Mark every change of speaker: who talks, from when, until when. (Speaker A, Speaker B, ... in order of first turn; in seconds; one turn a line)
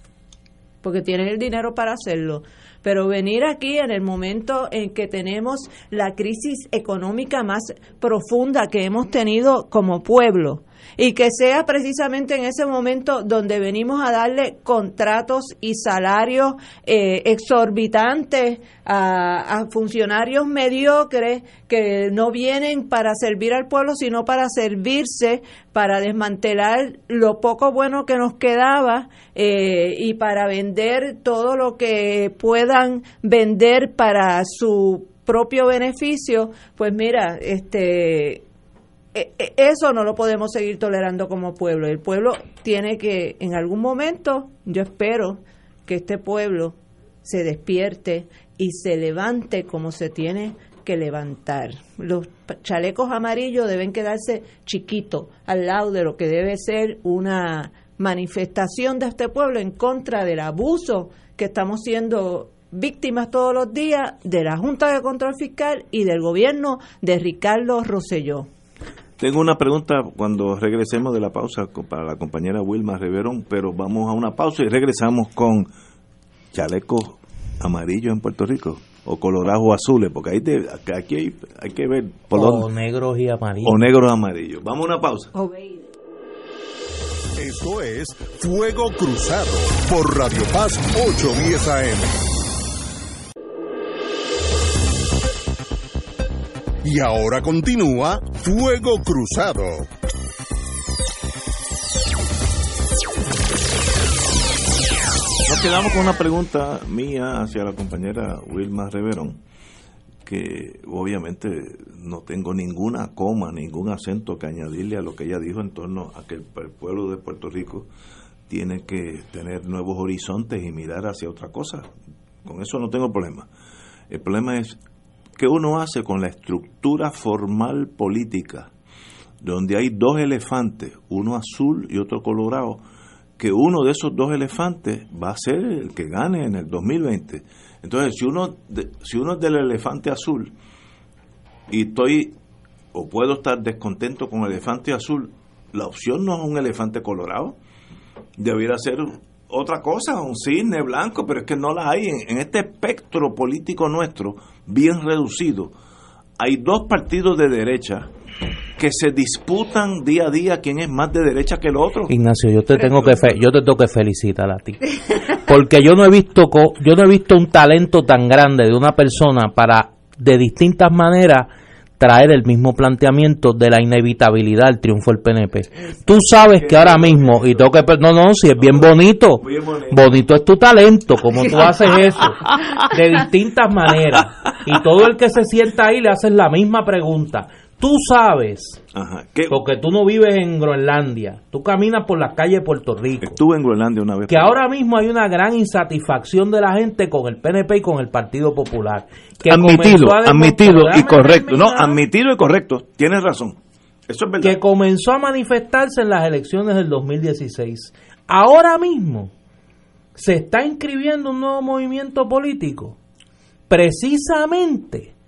Speaker A: 0.8-38.4
Speaker A: 39.1-68.5
Speaker B: 69.2-75.7
Speaker B: 76.5-82.7
Speaker C: 82.3-83.8
Speaker B: 83.6-85.3
Speaker A: 85.3-85.8
Speaker D: 87.3-92.2
Speaker D: 96.8-99.9
Speaker B: 105.5-109.4
Speaker B: 110.2-117.9
Speaker B: 118.5-121.9
Speaker B: 122.4-123.5
Speaker B: 124.1-124.8
Speaker B: 125.4-128.7
Speaker B: 129.4-132.8
Speaker B: 133.4-140.5
Speaker B: 141.7-142.3
Speaker B: 142.9-147.6
Speaker B: 148.4-155.7
Speaker B: 156.4-158.1
Speaker B: 158.8-162.1
Speaker C: 162.1-188.8
Speaker B: 176.5-177.5
Speaker B: 179.4-180.0
Speaker B: 188.9-189.6
Speaker C: 189.5-193.4
Speaker B: 193.2-194.6
Speaker C: 194.3-202.0
Speaker B: 199.4-204.6
Speaker C: 204.4-209.3
Speaker C: 210.2-212.9
Speaker C: 213.7-215.1